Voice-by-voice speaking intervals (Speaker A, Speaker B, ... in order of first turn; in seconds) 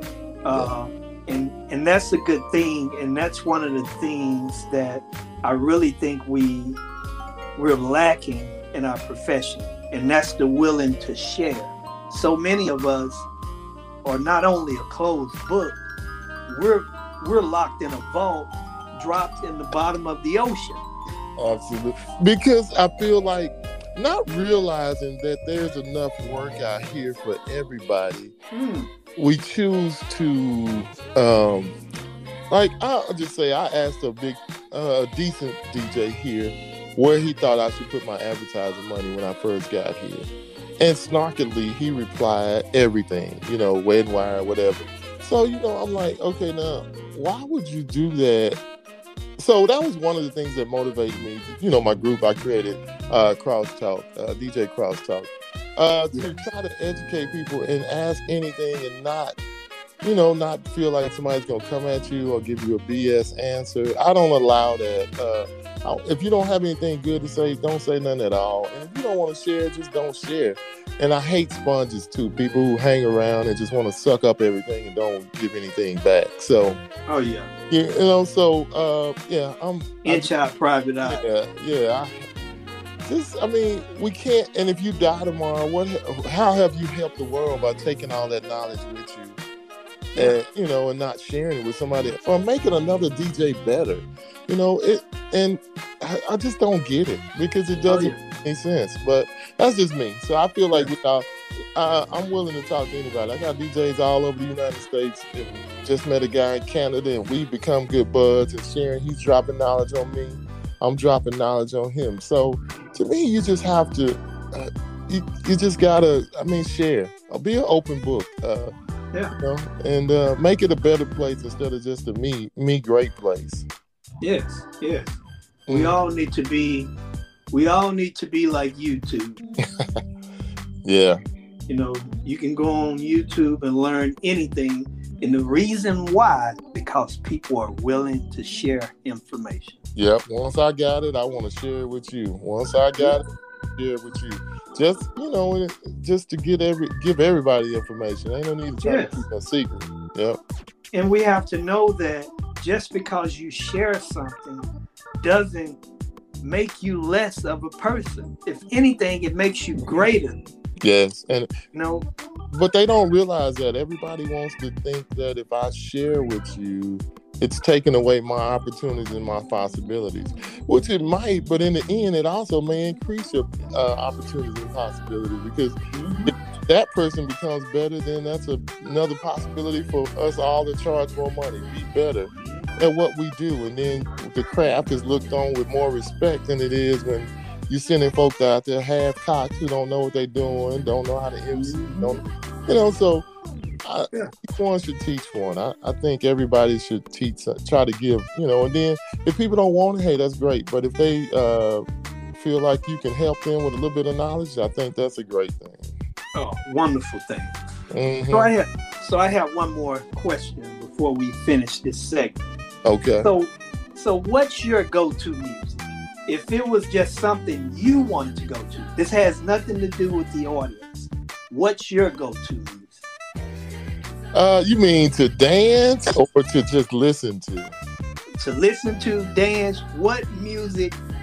Speaker A: 0.4-6.8, 7.5-13.3, 14.0-15.8, 16.5-20.8, 28.5-28.9, 77.1-77.5, 80.0-81.2, 97.9-98.2, 124.2-125.2, 125.7-126.9, 127.5-129.4, 131.7-139.8, 148.8-149.2, 150.9-154.7, 155.2-155.8, 156.4-160.4, 161.7-162.1, 175.9-176.3, 182.4-182.6, 191.5-192.1, 206.3-207.5, 208.3-212.5, 213.2-223.0, 228.4-230.9
Speaker B: 21.4-28.3, 29.1-31.8, 32.5-40.3, 40.8-48.6, 49.4-59.4, 60.0-76.8, 77.7-80.3, 81.0-82.2, 83.0-89.4, 90.1-118.7, 119.3-123.7, 125.7-126.0, 129.6-129.9, 130.8-131.2, 139.9-150.4, 160.8-161.5, 162.5-193.2, 193.8-201.8, 202.3-205.9, 207.9-208.5, 212.8-213.3, 224.3-227.7